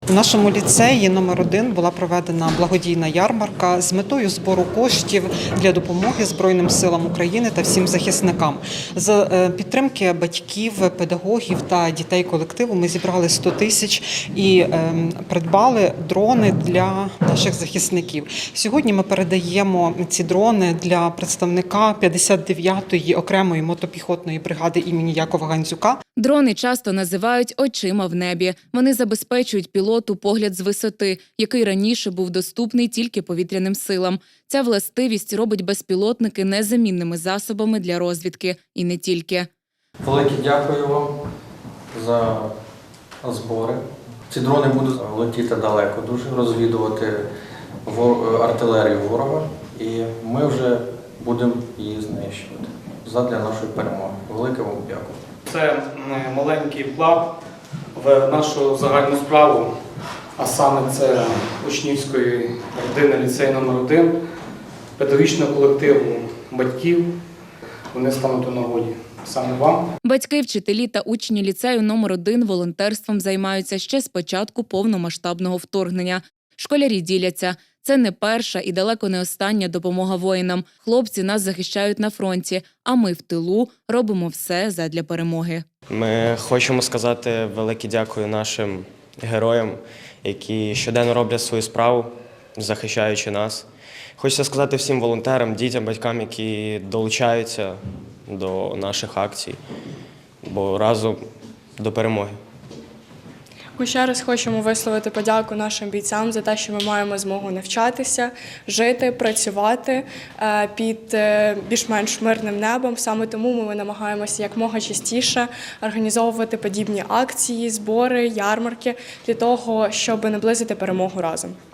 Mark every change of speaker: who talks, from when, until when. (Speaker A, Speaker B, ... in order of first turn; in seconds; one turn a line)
Speaker A: 0.1-26.0
Speaker B: 26.2-39.5
Speaker C: 40.0-41.2
Speaker C: 41.9-42.5
Speaker C: 43.2-47.3
Speaker C: 47.9-55.2
Speaker D: 55.5-57.3
Speaker D: 58.0-59.7
Speaker D: 60.4-64.2
Speaker D: 65.0-67.1
Speaker D: 67.9-69.9
Speaker B: 70.0-85.7
Speaker E: 85.9-93.7
Speaker E: 94.2-99.6
Speaker E: 100.4-101.2
Speaker E: 101.8-102.4
Speaker F: 103.8-121.5